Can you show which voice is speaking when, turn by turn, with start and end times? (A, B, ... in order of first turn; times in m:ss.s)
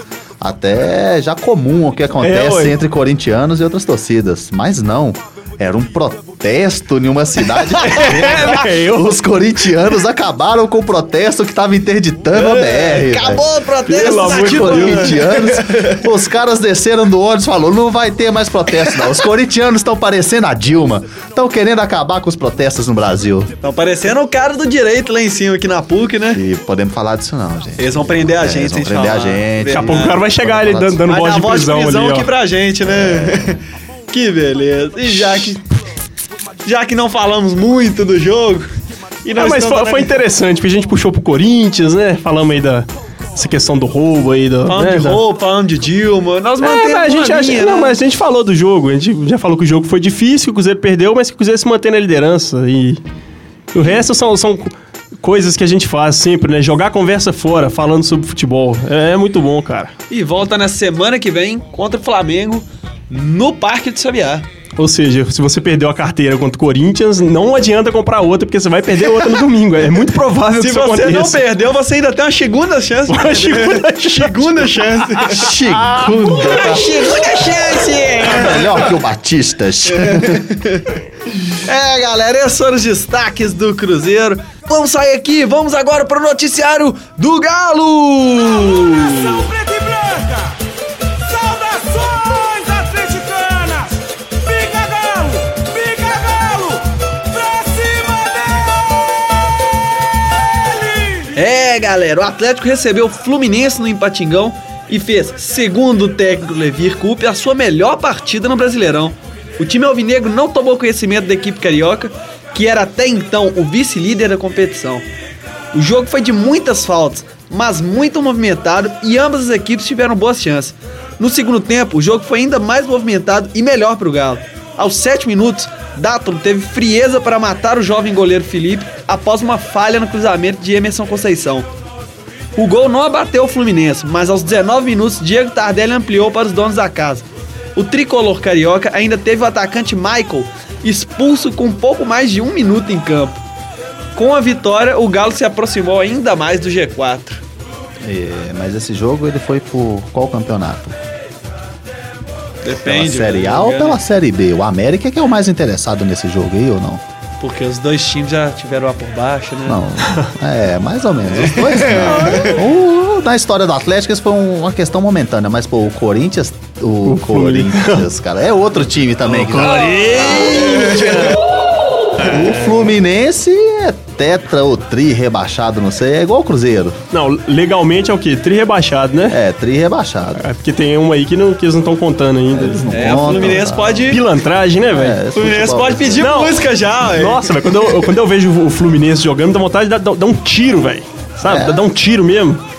0:00.4-0:13.5 A
0:02.2-0:02.8 B
0:07.8-0:09.1 B
0:12.3-0:16.0 C
0:13.8-0:15.3 B
0:14.3-0:23.5 A
0:23.6-0:26.4 C
0:26.3-0:31.0 A
0:27.8-0:30.2 C
0:29.7-0:32.3 B
0:31.0-0:35.6 C
0:32.9-0:33.5 A
0:36.6-0:38.7 C
0:39.2-0:40.2 C
0:39.4-0:45.2 B
0:44.7-0:48.0 C
0:46.6-0:53.0 B
0:53.7-0:59.9 B
1:00.1-1:04.4 C
1:04.8-1:11.4 B
1:10.6-1:15.5 C
1:13.1-1:16.7 B
1:15.2-1:17.1 A
1:16.3-1:18.9 C
1:18.2-1:20.4 A
1:19.9-1:20.8 C
1:21.5-1:29.5 C
1:29.2-1:30.5 D
1:31.3-1:38.7 D
1:41.3-1:55.0 C
1:55.7-2:11.7 C
2:12.6-2:23.4 C
2:24.2-2:27.4 C
2:28.0-2:31.0 A
2:32.6-2:34.0 C
2:32.8-2:37.0 A
2:37.4-2:39.8 C
2:39.6-2:51.3 A
2:41.4-2:42.6 C
2:42.2-2:42.6 B
2:47.0-2:48.1 B
2:49.2-2:51.4 B
2:50.2-2:51.4 C
2:52.1-2:57.0 A
2:52.2-2:52.8 B
2:57.1-2:59.4 B
2:59.3-3:00.4 A
3:00.4-3:05.2 B
3:02.5-3:04.2 A
3:02.9-3:04.2 C
3:04.9-3:06.3 A
3:05.3-3:07.5 C
3:06.2-3:12.6 B
3:11.4-3:11.8 A